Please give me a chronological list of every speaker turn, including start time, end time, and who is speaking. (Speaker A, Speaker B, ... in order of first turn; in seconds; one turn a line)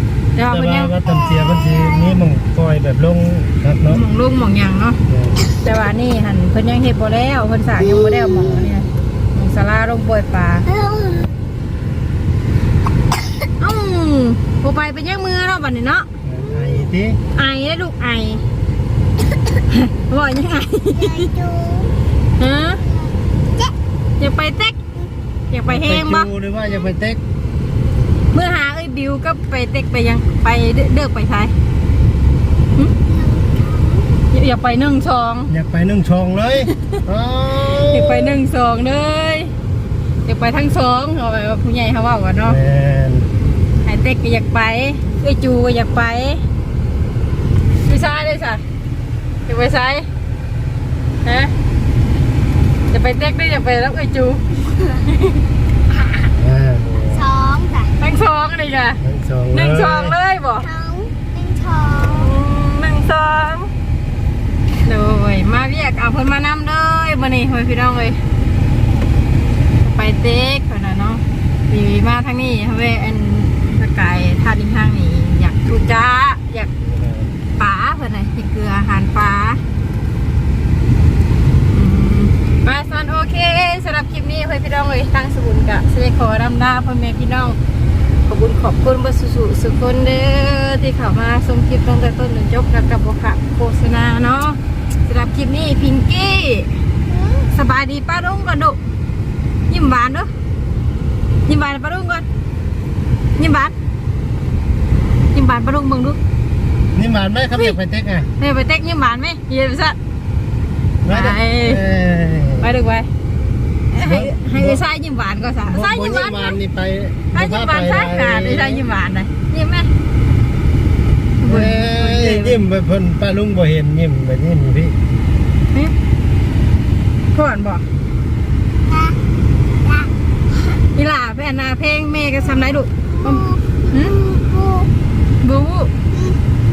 Speaker A: 0.3-0.9
Speaker B: 0.5-4.0
Speaker C: 1.1-2.2
Speaker A: 3.9-10.7
Speaker B: 5.1-5.4
Speaker B: 7.8-8.7
Speaker C: 10.7-11.3
Speaker A: 13.5-16.1
Speaker B: 16.3-17.2
Speaker A: 17.3-18.4
Speaker A: 19.6-21.3
Speaker C: 21.0-21.9
Speaker A: 22.4-22.8
Speaker A: 24.2-24.8
Speaker A: 25.5-26.3
Speaker B: 25.6-27.2
Speaker A: 28.3-31.5
Speaker C: 33.1-34.2
Speaker A: 34.3-35.5
Speaker B: 35.5-38.4
Speaker A: 37.9-39.5
Speaker A: 40.2-42.6
Speaker B: 42.4-43.3
Speaker A: 43.8-46.4
Speaker A: 47.8-48.6
Speaker A: 49.5-50.1
Speaker A: 51.2-51.5
Speaker A: 52.9-55.4
Speaker B: 56.3-57.3
Speaker C: 57.1-58.0
Speaker A: 58.0-59.0
Speaker B: 59.0-60.2
Speaker A: 59.5-60.7
Speaker C: 60.6-62.3
Speaker A: 62.0-63.7
Speaker A: 64.8-68.2
Speaker A: 69.8-76.7
Speaker B: 76.8-77.3
Speaker A: 77.6-79.6
Speaker A: 81.7-87.6
Speaker A: 88.3-96.7
Speaker A: 97.5-98.8
Speaker A: 99.7-100.3
Speaker A: 101.5-102.2
Speaker A: 103.4-103.8
Speaker A: 105.3-106.2
Speaker B: 106.9-108.3
Speaker A: 108.4-110.0
Speaker B: 111.0-112.7
Speaker A: 111.1-111.8
Speaker A: 112.6-113.1
Speaker A: 113.9-116.6
Speaker B: 114.0-114.8
Speaker B: 115.6-118.8
Speaker A: 117.3-119.9
Speaker A: 121.4-122.6
Speaker B: 121.5-125.0
Speaker A: 127.3-127.8
Speaker A: 130.8-134.2
Speaker C: 133.3-134.9
Speaker A: 135.4-135.9
Speaker C: 136.1-136.4